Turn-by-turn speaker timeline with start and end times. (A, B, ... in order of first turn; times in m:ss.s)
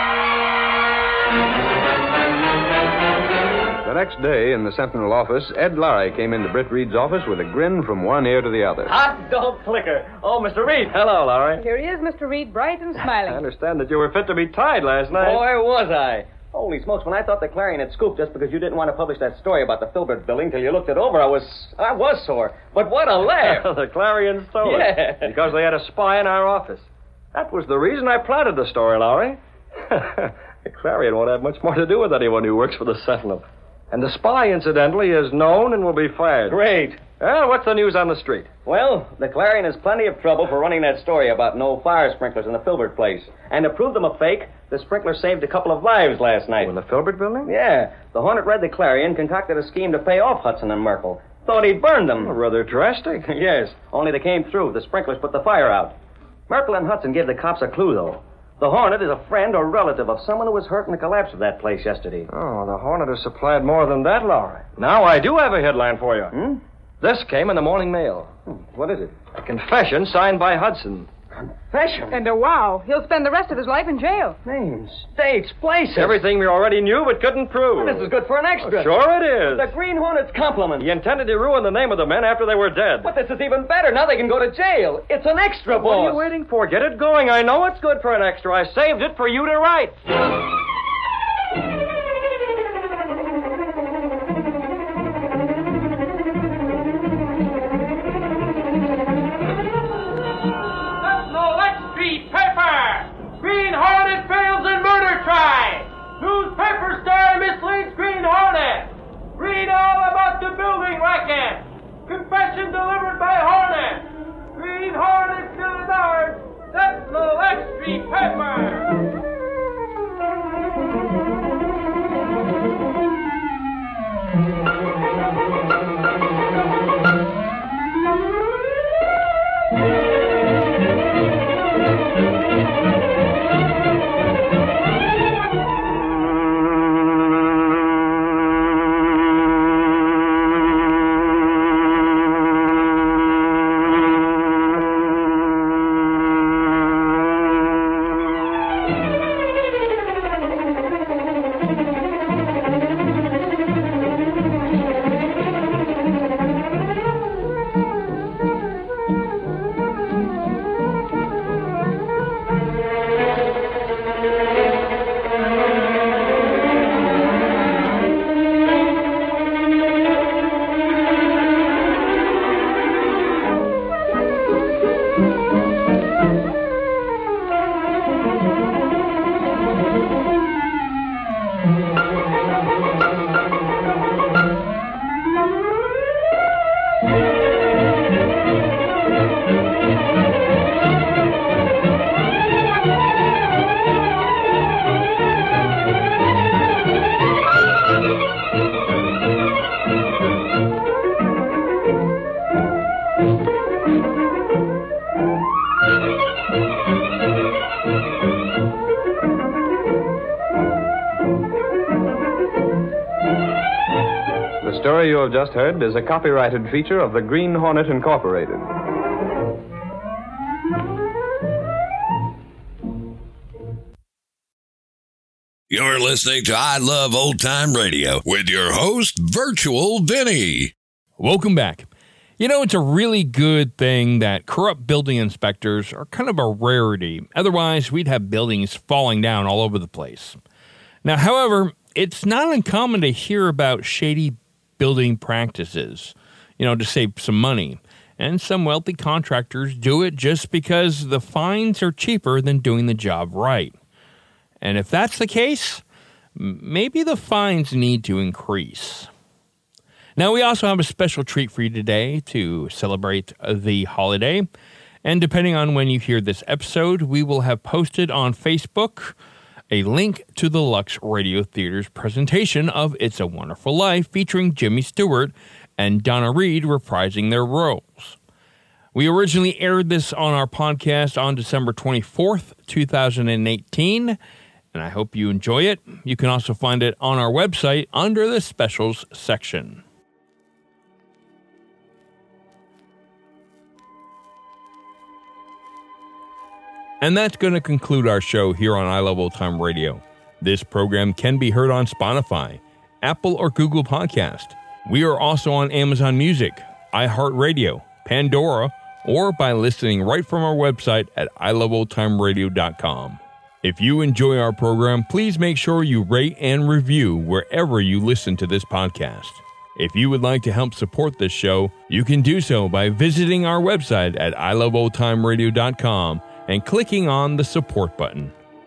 0:03.8-0:08.9 A
0:08.8-0:11.0 B
0:10.9-0:11.6 C
0:11.6-0:13.4 D
0:13.2-0:15.4 C
0:15.1-0:23.7 B
0:23.4-0:36.6 C
0:24.6-0:25.3 B
0:36.5-0:37.0 B
0:37.2-0:38.5 C
0:38.6-0:46.8 B
0:46.6-0:47.5 C
0:47.4-0:52.4 B
0:52.1-0:53.3 C
0:53.2-0:55.9 B
0:56.5-1:02.3 B
1:02.3-1:06.3 C
1:06.3-1:06.6 B
1:07.0-1:08.3 C
1:08.5-1:09.1 B
1:09.4-1:11.1 C
1:11.7-1:12.2 B
1:12.1-1:14.4 D
1:14.4-1:16.2 B
1:15.9-1:19.7 C
1:17.7-1:20.9 B
1:20.8-1:23.1 C
1:23.0-1:26.2 B
1:25.7-1:30.0 C
1:41.0-1:58.9 E
3:34.6-3:38.7 A
3:45.7-3:50.7 F
3:51.2-3:51.9 G
3:52.4-4:00.4 G
4:01.0-4:13.7 G
4:14.6-4:15.8 G
4:16.4-4:19.1 G
4:20.2-4:24.5 G
4:25.0-4:29.2 G
4:29.7-4:38.2 G
4:38.9-4:44.2 G
4:44.7-4:49.8 G
4:57.0-5:28.3 G